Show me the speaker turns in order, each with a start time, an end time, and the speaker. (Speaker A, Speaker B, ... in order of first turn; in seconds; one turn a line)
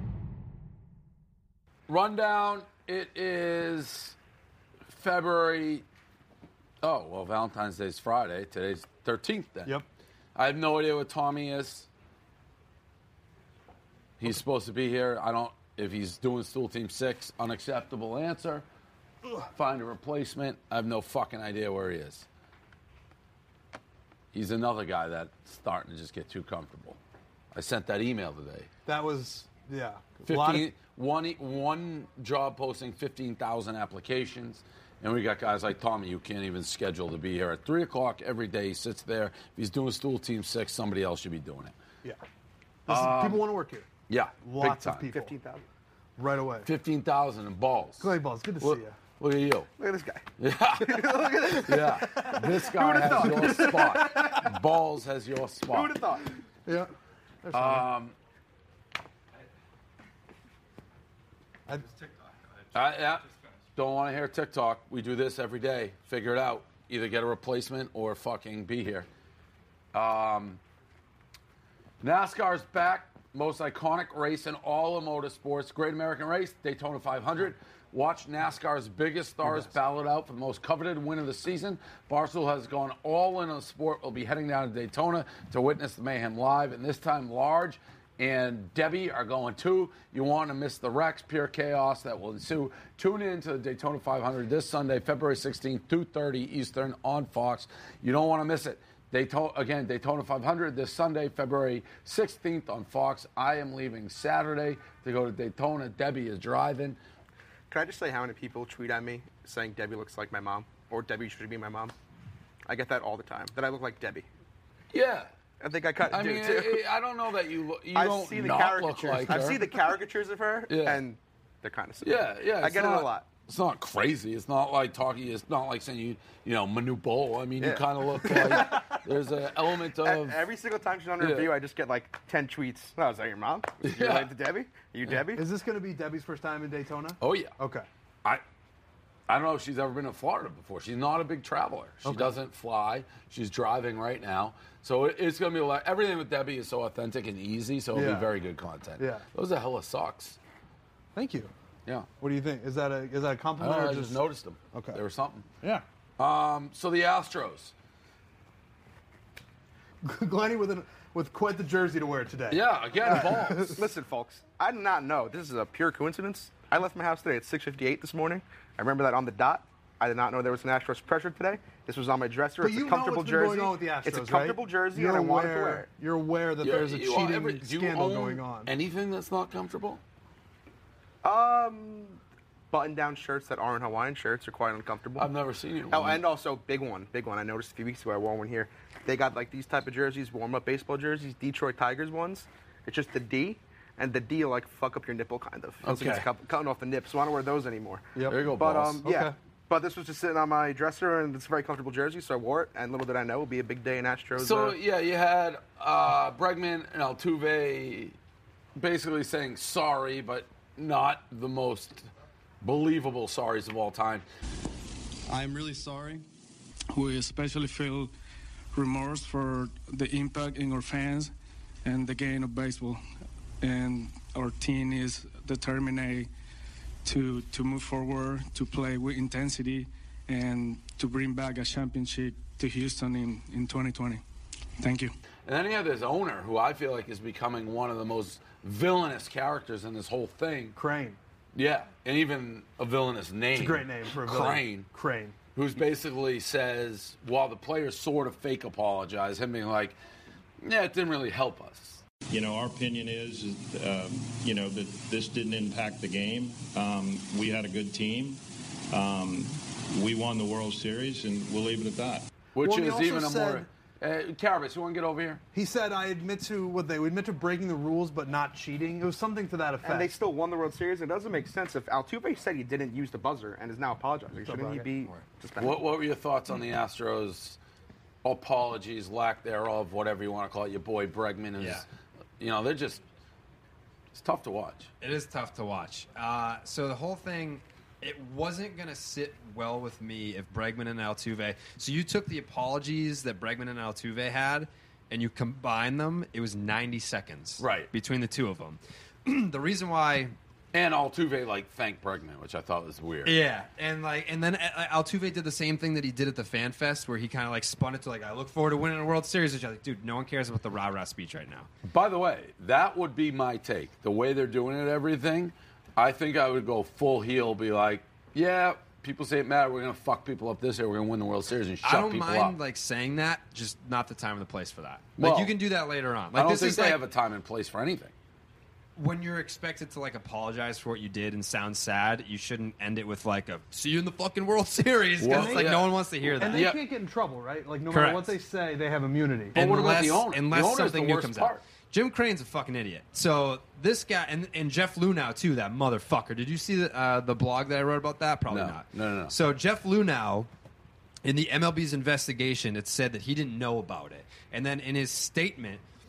Speaker A: 1.9-4.2
Speaker A: 4.9-5.8
Speaker A: 6.8-9.8
Speaker A: 10.3-11.9
Speaker A: 14.2-18.6
Speaker A: 19.5-22.2
Speaker A: 24.3-27.0
Speaker A: 27.5-28.7
Speaker B: 28.9-30.7
Speaker A: 30.3-41.8
Speaker B: 42.9-43.9
Speaker A: 42.9-43.5
Speaker A: 44.1-45.1
Speaker B: 44.4-45.3
Speaker C: 45.1-45.6
Speaker B: 46.2-46.7
Speaker A: 46.6-49.7
Speaker B: 48.0-49.0
Speaker C: 49.8-54.4
Speaker A: 50.4-56.0
Speaker B: 51.8-54.3
Speaker C: 55.7-56.3
Speaker B: 56.6-56.9
Speaker B: 57.4-57.8
Speaker A: 57.5-58.1
Speaker B: 61.7-62.0
Speaker A: 62.7-69.1
Speaker A: 69.9-70.6
Speaker A: 72.0-107.0
Speaker C: 107.7-111.9
Speaker C: 112.7-114.3
Speaker A: 114.9-115.3
Speaker C: 115.6-116.8
Speaker A: 116.0-119.7
Speaker C: 117.9-123.2
Speaker A: 120.7-121.0
Speaker A: 122.0-130.4
Speaker C: 127.6-128.8
Speaker C: 130.0-135.4
Speaker A: 131.2-131.5
Speaker A: 133.8-134.3
Speaker B: 135.3-137.9
Speaker A: 137.2-137.5
Speaker A: 139.3-150.4
Speaker B: 142.0-142.3
Speaker B: 147.9-148.3
Speaker B: 149.0-149.2
Speaker B: 151.1-151.5
Speaker B: 152.2-154.2
Speaker A: 153.6-155.5
Speaker B: 154.7-155.0
Speaker A: 156.2-157.7
Speaker B: 160.0-163.8
Speaker A: 162.5-163.8
Speaker C: 163.8-175.9
Speaker B: 172.6-178.7
Speaker A: 176.6-180.0
Speaker C: 181.2-182.2
Speaker C: 182.7-185.3
Speaker A: 185.2-186.2
Speaker C: 185.9-204.8
Speaker A: 195.8-196.3
Speaker B: 198.2-199.3
Speaker A: 198.3-199.0
Speaker A: 204.4-208.2
Speaker A: 208.8-212.1
Speaker A: 212.6-214.2
Speaker D: 216.9-218.1
Speaker D: 218.7-221.3
Speaker D: 221.8-223.0
Speaker D: 223.6-226.3
Speaker D: 227.0-234.2
Speaker D: 234.8-235.1
Speaker A: 235.4-240.8
Speaker B: 240.7-241.2
Speaker A: 241.5-244.9
Speaker B: 243.5-245.3
Speaker A: 245.5-250.0
Speaker A: 250.6-252.0
Speaker E: 252.3-258.4
Speaker E: 258.9-262.2
Speaker A: 262.6-265.4
Speaker B: 262.6-263.7
Speaker B: 265.5-270.1
Speaker C: 269.8-275.8
Speaker B: 274.4-274.9
Speaker A: 275.6-277.6
Speaker A: 278.2-281.9
Speaker F: 281.6-281.8
Speaker A: 282.4-283.0
Speaker A: 284.1-284.9
Speaker F: 285.0-300.3
Speaker A: 297.6-297.9
Speaker A: 300.7-303.4
Speaker F: 303.2-311.7
Speaker A: 311.8-322.6
Speaker F: 321.8-327.0
Speaker A: 325.2-325.5
Speaker A: 326.3-328.1
Speaker F: 328.9-336.6
Speaker A: 335.2-336.8
Speaker B: 335.2-339.6
Speaker F: 337.9-338.3
Speaker A: 339.5-341.6
Speaker F: 339.5-350.5
Speaker A: 348.5-349.4
Speaker F: 351.2-355.8